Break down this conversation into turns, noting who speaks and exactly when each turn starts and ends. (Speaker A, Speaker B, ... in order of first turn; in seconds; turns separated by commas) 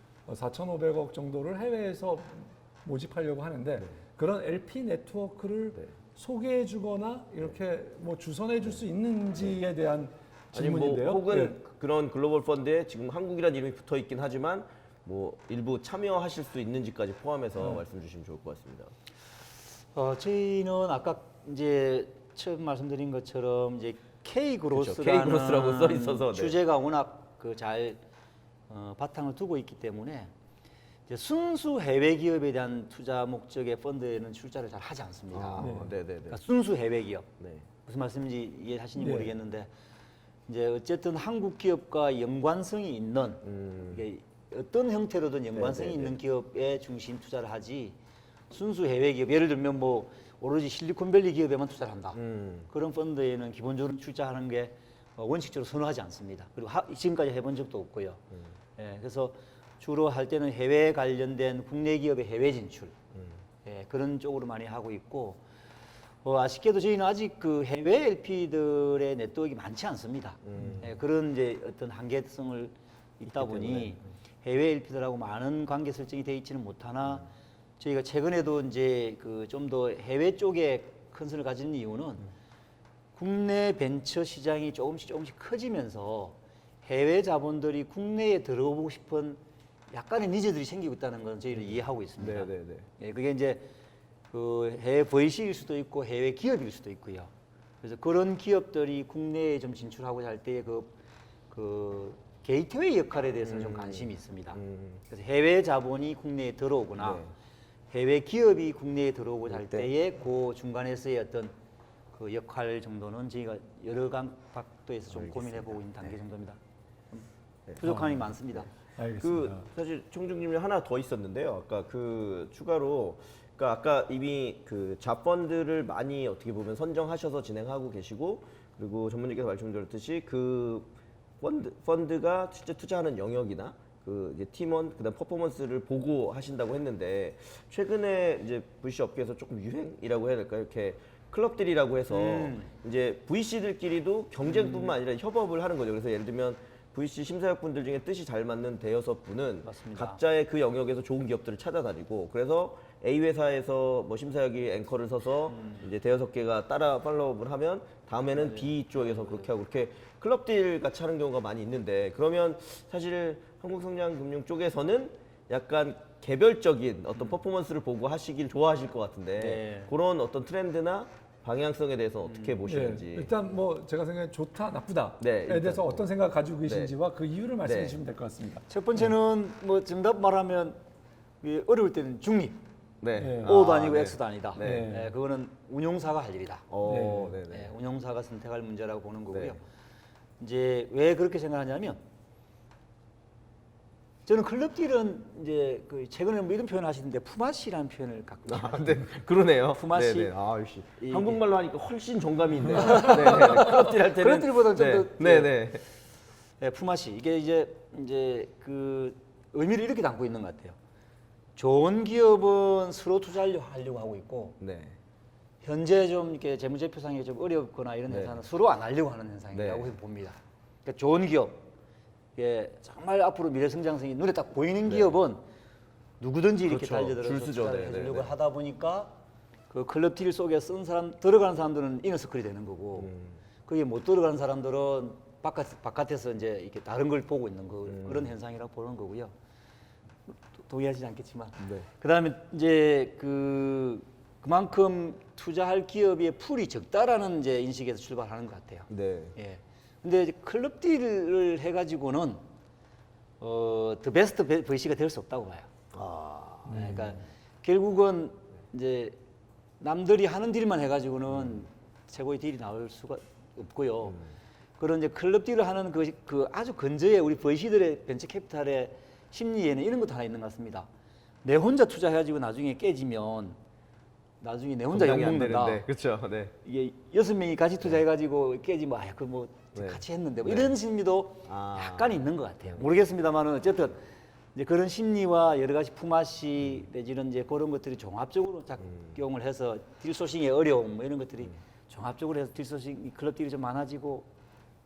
Speaker A: 0.3-11.6, Speaker B: 10.5-18.9, Speaker C: 19.9-28.0, Speaker B: 24.7-26.6, Speaker C: 28.7-30.3, Speaker C: 31.1-35.7, Speaker B: 35.3-36.4, Speaker A: 35.6-35.9, Speaker C: 36.3-37.3, Speaker B: 37.4-37.6, Speaker C: 37.8-39.7, Speaker A: 39.0-39.3, Speaker C: 40.5-48.0, Speaker B: 43.4-44.0, Speaker B: 45.5-46.1, Speaker C: 48.5-52.2, Speaker B: 52.1-52.7, Speaker C: 52.7-58.2, Speaker C: 58.8-63.0, Speaker C: 63.6-65.4, Speaker C: 66.2-77.2, Speaker B: 70.4-70.9, Speaker B: 73.3-74.0, Speaker C: 77.8-82.2, Speaker C: 83.2-89.4, Speaker C: 89.9-93.7, Speaker B: 91.5-92.9, Speaker C: 94.3-97.3, Speaker C: 97.8-101.0, Speaker C: 101.5-107.2, Speaker B: 103.4-105.0, Speaker B: 107.0-107.3, Speaker C: 107.9-111.5, Speaker B: 109.5-109.9, Speaker C: 112.1-116.6, Speaker B: 115.1-116.1, Speaker B: 117.7-117.9, Speaker C: 117.8-118.7, Speaker A: 117.8-118.2, Speaker A: 119.0-119.7, Speaker B: 119.2-130.9, Speaker B: 131.4-173.3, Speaker C: 142.1-142.7, Speaker C: 144.4-145.0, Speaker C: 149.6-150.2, Speaker C: 155.5-155.8, Speaker C: 158.3-159.5, Speaker C: 169.4-169.9, Speaker C: 172.2-172.5, Speaker A: 172.6-178.6, Speaker B: 175.2-176.1, Speaker B: 176.6-176.9, Speaker B: 177.6-178.0, Speaker C: 178.7-180.8, Speaker C: 181.4-182.6, Speaker B: 183.0-184.9, Speaker A: 183.2-183.5, Speaker C: 183.4-186.7, Speaker A: 184.6-185.1, Speaker B: 186.7-187.7, Speaker A: 186.8-187.4, Speaker C: 187.4-189.6, Speaker C: 190.4-192.0, Speaker C: 194.2-199.1, Speaker B: 198.5-205.8, Speaker C: 199.7-200.3, Speaker C: 201.0-201.4, Speaker C: 202.7-205.6, Speaker A: 202.7-203.7, Speaker C: 206.6-210.8, Speaker C: 211.6-214.6, Speaker B: 214.6-214.9, Speaker C: 215.6-221.6, Speaker B: 218.1-218.4, Speaker B: 219.5-219.9, Speaker C: 222.4-225.4, Speaker B: 224.9-225.1, Speaker C: 226.2-229.1, Speaker B: 226.7-228.3, Speaker C: 229.7-233.1, Speaker B: 232.9-233.4, Speaker C: 233.7-239.3, Speaker B: 237.9-238.3, Speaker C: 240.3-252.4, Speaker B: 241.6-241.8, Speaker B: 248.9-249.3, Speaker C: 253.4-255.7, Speaker B: 255.9-257.1, Speaker C: 256.7-259.2, Speaker C: 259.8-264.2, Speaker B: 261.3-261.6, Speaker C: 264.8-270.9, Speaker C: 271.4-273.6, Speaker C: 274.4-275.9, Speaker B: 274.9-276.5, Speaker C: 276.6-284.0, Speaker B: 279.7-280.7, Speaker B: 281.4-282.8, Speaker C: 284.5-294.3, Speaker B: 288.9-289.1